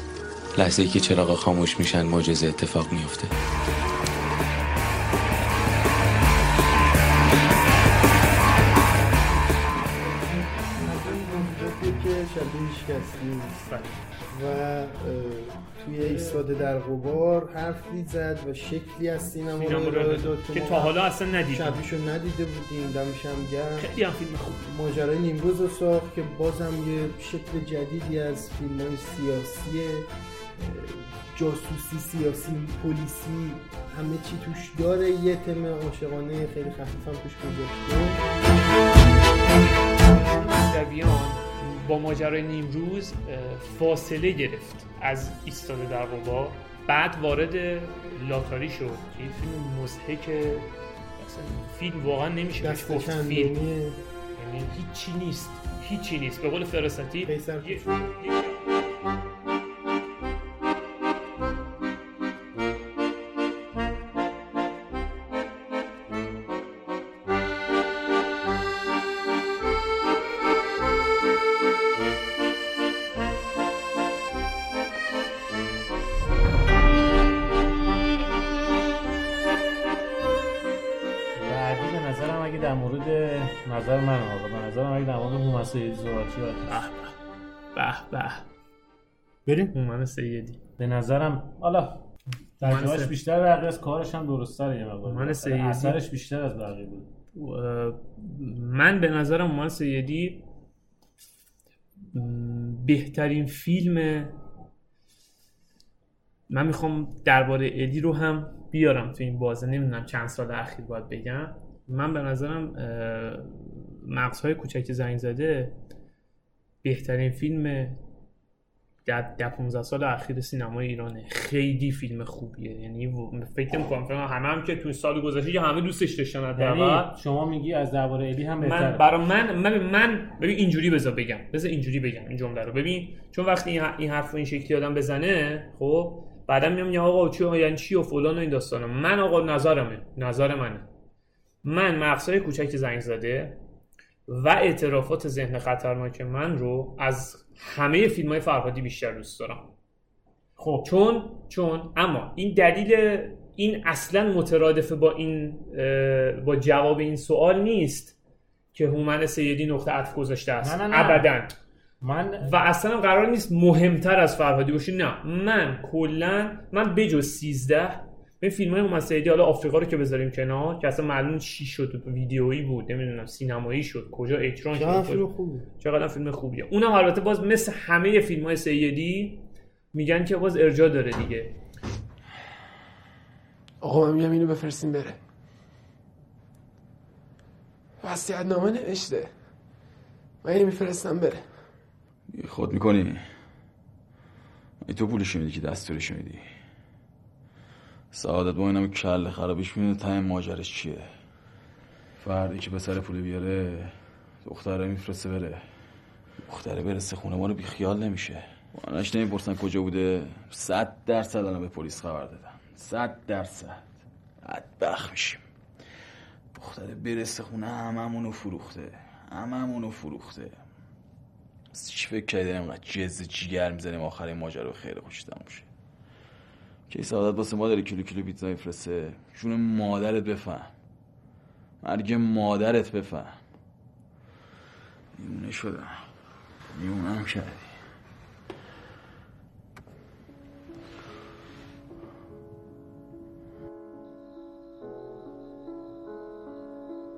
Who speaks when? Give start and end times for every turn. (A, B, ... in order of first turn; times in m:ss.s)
0:00.6-0:03.3 A
0:10.7-0:13.8 B
0:13.7-0:14.0 C
0:14.3-0:21.0 B
0:19.6-0:21.8 C
0:21.5-0:23.9 B
0:23.8-0:24.6 C
0:24.6-0:38.2 B
0:40.0-0:53.6 C
0:52.6-0:54.0 B
0:54.4-0:58.8 C
0:57.2-0:57.9 B
1:21.4-1:26.8 D
1:26.7-1:27.1 C
1:27.7-1:28.4 C
1:29.7-1:30.6 C
1:30.8-1:32.0 D
1:32.6-1:37.1 D
1:32.6-1:33.1 C
1:35.0-1:36.0 C
1:37.3-1:40.4 C
1:42.1-1:44.4 C
1:46.5-1:55.7 C
1:56.8-1:58.0 C
1:59.0-2:07.1 C
2:06.6-2:09.0 D
2:08.6-2:20.9 C
2:21.6-2:23.6 C
2:24.3-2:29.7 C
2:30.6-2:30.9 D
2:30.8-2:38.2 C
2:38.7-2:41.5 C
2:40.6-2:41.3 D
2:42.0-2:42.5 D
2:42.4-2:55.2 C
2:54.7-2:55.6 B
2:55.8-3:01.5 C
3:03.8-3:05.2 E
3:08.0-3:09.3 E
3:10.4-3:11.4 E
3:12.3-3:13.2 F
3:14.8-3:16.4 F
3:18.1-3:21.1 F
3:22.2-3:25.6 F
3:26.4-3:33.9 F
3:34.4-3:35.4 F
3:36.6-3:40.5 F
3:41.7-3:45.7 F
3:46.9-3:50.7 F
3:51.8-3:53.4 F
3:55.2-3:56.0 F
3:56.7-3:57.7 F